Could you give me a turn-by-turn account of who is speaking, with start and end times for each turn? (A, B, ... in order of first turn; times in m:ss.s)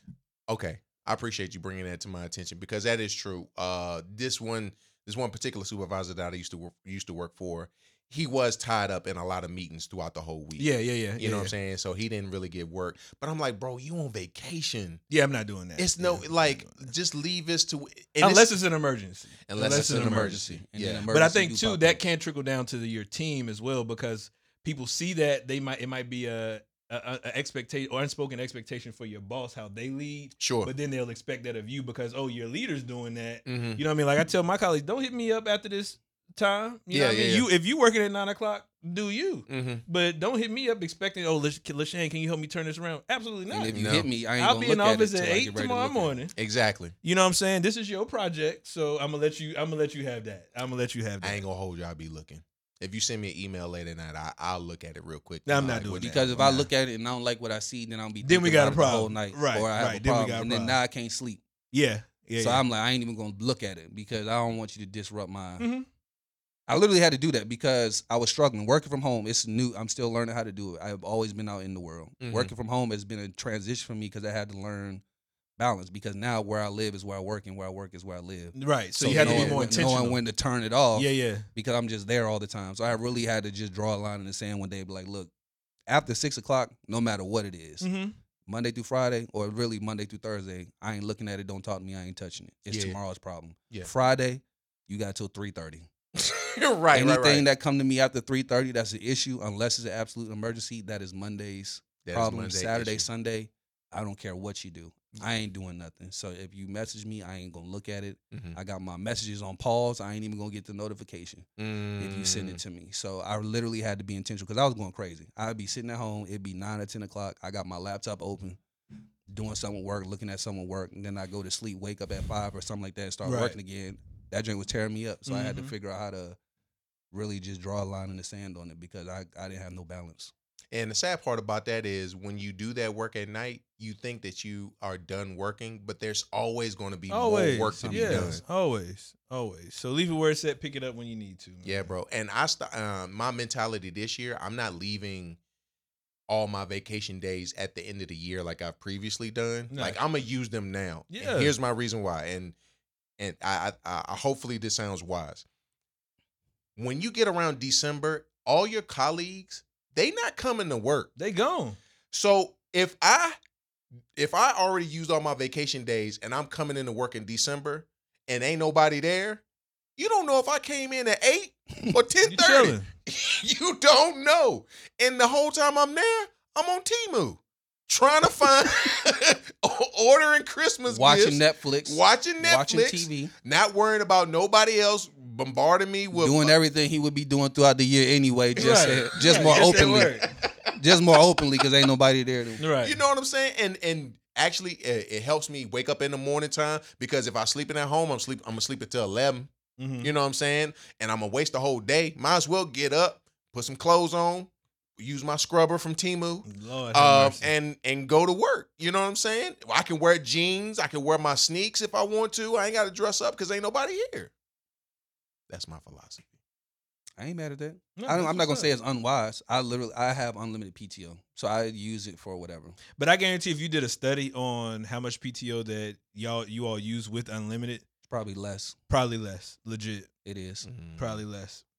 0:00.5-0:15.0 A
0:10.6-0:11.5 B
0:15.1-0:16.9 B
0:15.8-0:18.5 A
0:18.2-0:20.4 B
0:19.5-0:21.1 A
0:19.6-0:22.0 C
0:21.1-0:43.8 B
0:30.4-0:30.7 A
0:33.5-0:33.8 A
0:36.9-0:37.5 A
0:39.5-0:39.8 A
0:43.5-0:46.2 C
0:43.7-0:44.1 A
0:44.4-0:46.3 B
0:46.4-0:46.9 A
0:47.0-0:51.4 B
0:51.2-0:56.7 A
0:55.5-0:56.6 B
0:56.0-1:01.4 C
0:58.2-1:00.8 B
1:01.7-1:02.6 B
1:02.4-1:05.7 C
1:05.6-1:05.9 B
1:06.7-1:15.0 C
1:12.2-1:12.5 A
1:15.6-1:25.3 C
1:18.6-1:20.2 B
1:19.0-1:19.8 A
1:21.0-1:21.5 B
1:25.9-1:27.9 C
1:27.8-1:28.2 B
1:28.5-1:35.9 C
1:32.7-1:33.0 A
1:36.2-1:37.4 A
1:36.9-1:51.5 C
1:42.0-1:43.0 A
1:48.3-1:48.6 A
1:51.6-1:52.6 A
1:52.0-1:58.6 C
1:59.3-2:06.4 C
2:03.2-2:03.6 B
2:05.3-2:05.7 B
2:07.1-2:10.3 C
2:10.7-2:18.4 A
2:17.1-2:21.9 B
2:17.8-2:18.4 C
2:21.6-2:25.4 A
2:26.3-2:32.6 A
2:29.7-2:30.0 B
2:31.1-2:31.5 B
2:33.2-2:35.4 A
2:36.8-2:41.1 A
2:41.2-2:41.8 B
2:42.1-2:43.4 A
2:44.2-2:49.4 A
2:50.0-3:06.5 A
2:52.3-2:52.9 B
3:00.9-3:03.3 C
3:06.1-3:10.2 C
3:08.6-3:10.3 B
3:09.2-3:10.7 A
3:10.8-3:12.6 C
3:12.6-3:13.0 B
3:12.8-3:34.3 A
3:19.8-3:20.1 B
3:26.5-3:27.5 B
3:35.5-3:36.3 A
3:37.2-3:42.8 C
3:38.0-3:38.7 B
3:43.0-3:47.8 B
3:48.1-3:48.8 C
3:48.9-3:50.1 B
3:50.2-3:50.7 C
3:50.6-3:51.2 A
3:51.0-3:51.6 B